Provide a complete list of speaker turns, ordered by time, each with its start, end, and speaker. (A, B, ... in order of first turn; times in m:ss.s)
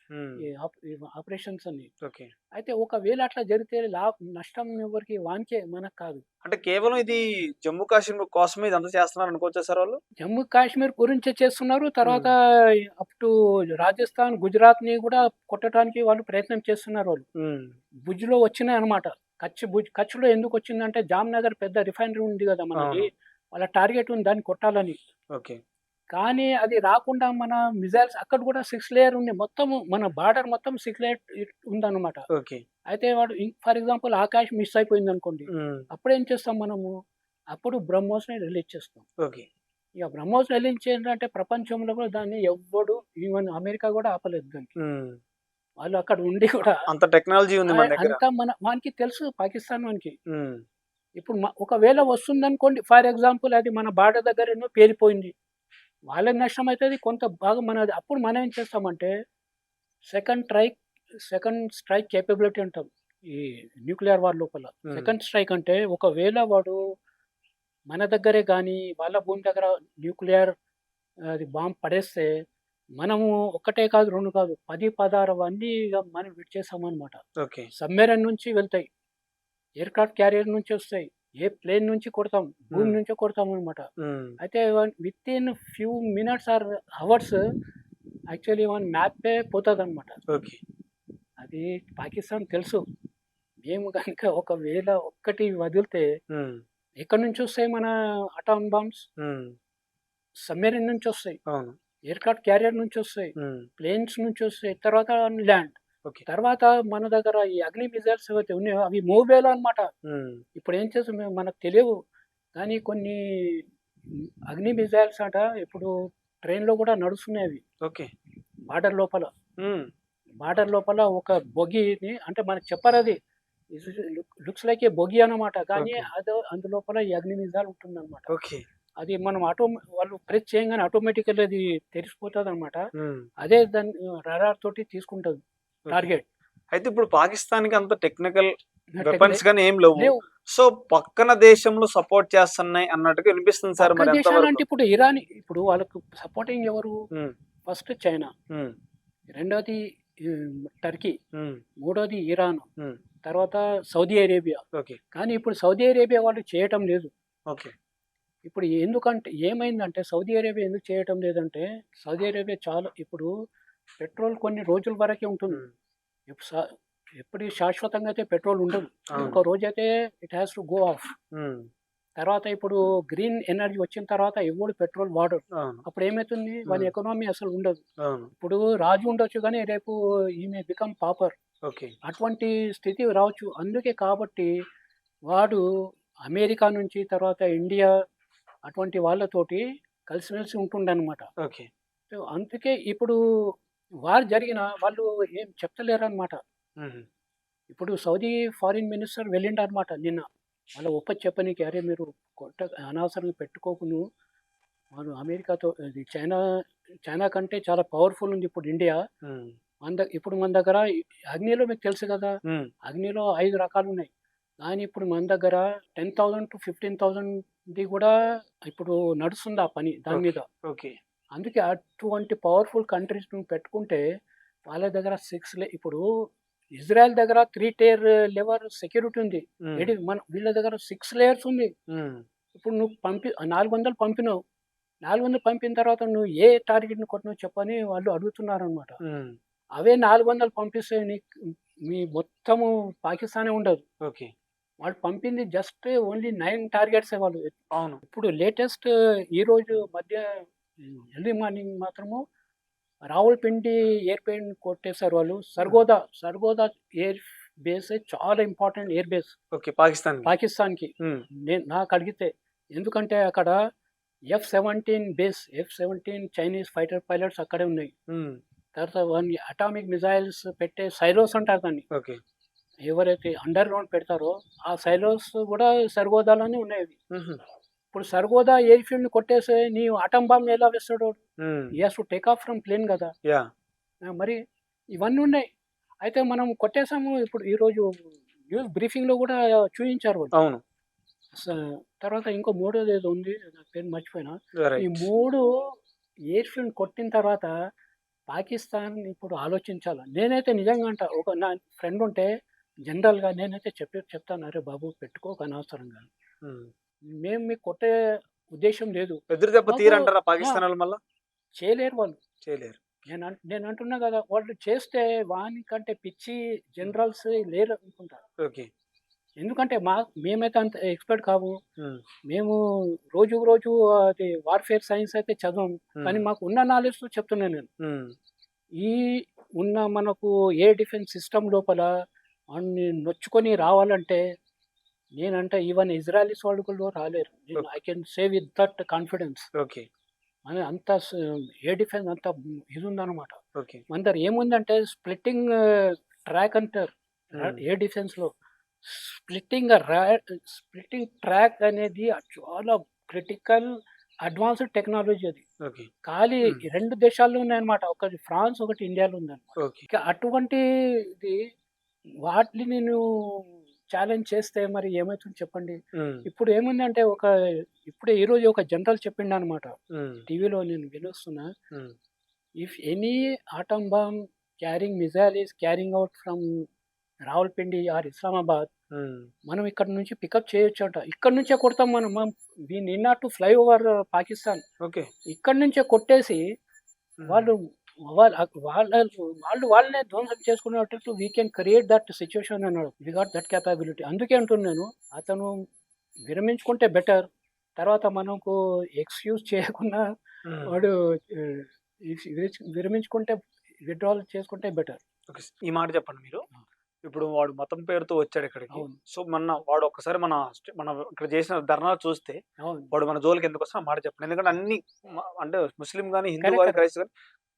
0:00.1-0:00.4 A
0:00.4-0:01.9 B
0:02.0-0:02.3 A
0:02.5-0:06.2 B
0:06.4-0:10.0 A
0:10.2-0:17.2 B
0:12.0-0:12.3 A
0:17.4-0:17.8 A
0:18.0-0:25.0 B
0:22.8-0:23.1 A
0:26.1-0:32.2 B
0:32.3-0:32.6 A
0:32.9-0:36.9 B
0:35.5-0:35.9 A
0:37.5-0:39.0 B
0:39.2-0:39.5 A
0:40.0-0:44.7 B
0:44.8-0:45.2 A
0:45.8-0:46.8 B
0:46.9-0:48.2 A
0:47.7-0:50.2 B
0:50.3-0:50.6 A
0:51.2-0:55.3 B
0:56.1-0:59.1 B
1:00.1-1:06.8 B
1:04.9-1:05.1 A
1:07.9-1:10.5 B
1:11.3-1:12.3 B
1:13.0-1:17.2 B
1:17.4-1:17.7 A
1:17.8-1:18.9 B
1:19.8-1:23.9 B
1:24.0-1:24.4 A
1:24.4-1:27.4 B
1:28.3-1:30.2 B
1:30.3-1:30.6 A
1:31.4-1:32.8 B
1:33.6-1:36.1 B
1:36.3-1:36.6 A
1:37.0-1:39.1 B
1:39.2-1:39.6 A
1:40.5-1:41.4 B
1:41.5-1:41.8 A
1:42.1-1:45.8 B
1:43.4-1:43.7 A
1:46.3-1:49.9 B
1:50.0-1:50.4 A
1:50.6-1:51.9 B
1:52.6-1:55.9 B
1:56.4-1:57.6 B
1:57.8-1:58.1 A
1:58.7-1:59.3 B
1:59.6-1:59.9 A
2:00.4-2:03.2 B
2:03.7-2:08.3 B
2:05.8-2:06.1 A
2:08.3-2:08.6 A
2:09.0-2:12.8 B
2:13.0-2:13.3 A
2:13.4-2:15.4 B
2:15.9-2:16.2 B
2:16.7-2:24.6 A
2:19.0-2:19.4 B
2:20.0-2:20.2 B
2:23.8-2:27.0 B
2:27.7-2:28.3 B
2:28.5-2:28.8 A
2:29.4-2:31.2 B
2:31.4-2:31.6 A
2:31.8-2:32.7 B
2:33.2-2:37.1 B
2:34.7-2:35.0 A
2:38.4-2:43.3 B
2:44.0-2:45.6 B
2:46.3-2:51.1 B
2:49.1-2:49.4 A
2:51.3-2:51.7 A
2:52.2-2:57.8 B
2:55.5-2:55.8 A
2:56.7-2:56.9 A
2:58.0-2:58.3 A
2:58.4-3:01.3 B
3:01.7-3:01.9 A
3:02.0-3:04.5 B
3:05.3-3:05.6 B
3:06.3-3:07.9 B
3:08.7-3:11.3 B
3:11.4-3:11.7 A
3:12.1-3:13.2 B
3:14.1-3:16.4 B
3:16.8-3:17.1 A
3:17.7-3:24.0 B
3:24.9-3:26.4 B
3:27.1-3:29.0 B
3:29.2-3:29.6 A
3:29.8-3:34.1 B
3:34.6-3:40.5 B
3:40.1-3:41.0 A
3:41.4-3:44.0 B
3:44.7-3:46.0 B
3:46.8-3:51.7 B
3:49.6-3:49.9 A
3:51.9-3:52.2 A
3:52.6-3:54.4 B
3:55.0-3:59.0 B
3:59.0-3:59.4 A
3:59.8-4:01.2 B
4:01.9-4:03.8 B
4:04.0-4:04.3 A
4:04.8-4:12.2 B
4:07.7-4:08.0 A
4:13.1-4:19.4 B
4:19.5-4:20.3 A
4:20.3-4:20.9 B
4:21.5-4:23.6 B
4:24.3-4:27.9 B
4:28.1-4:28.4 A
4:28.8-4:31.8 B
4:31.9-4:32.2 A
4:32.9-4:37.0 B
4:37.1-4:37.4 A
4:37.9-4:41.2 B
4:41.4-4:41.7 A
4:41.8-4:43.1 B
4:44.0-4:44.4 B
4:45.0-4:45.4 B
4:46.0-4:50.3 B
4:50.3-4:50.6 A
4:51.3-4:55.4 B
4:54.6-4:55.1 A
4:56.3-4:57.5 B
4:58.3-5:02.3 B
5:02.9-5:06.1 B
5:06.4-5:06.7 A
5:07.2-5:07.9 B
5:08.5-5:10.6 B
5:09.3-5:11.0 A
5:11.6-5:12.2 B
5:12.4-5:12.9 A
5:13.1-5:18.2 B
5:18.4-5:18.7 A
5:19.4-5:21.6 B
5:22.3-5:22.6 B
5:23.1-5:27.7 B
5:27.8-5:28.2 A
5:28.8-5:31.9 B
5:32.5-5:34.2 B
5:35.2-5:39.5 B
5:39.6-5:39.9 A
5:40.5-5:48.3 B
5:43.6-5:43.8 A
5:47.4-5:47.6 A
5:48.8-5:53.7 B
5:54.2-5:55.4 B
5:55.6-5:55.9 A
5:56.0-6:01.4 B
5:59.6-5:59.9 A
6:02.3-6:07.3 B
6:06.0-6:06.3 A
6:07.9-6:09.7 B
6:09.9-6:10.3 A
6:10.3-6:11.5 B
6:12.6-6:16.5 B
6:17.3-6:18.7 B
6:19.0-6:19.3 A
6:19.5-6:24.6 B
6:24.8-6:25.1 A
6:25.3-6:26.4 B
6:27.2-6:27.5 A
6:27.3-6:35.5 B
6:36.3-6:37.3 B
6:37.8-6:40.0 B
6:40.5-6:40.8 A
6:40.7-6:45.0 B
6:45.3-6:46.4 A
6:47.1-6:52.4 A
6:52.6-6:52.9 B
6:52.9-6:57.1 A
6:56.4-6:56.8 B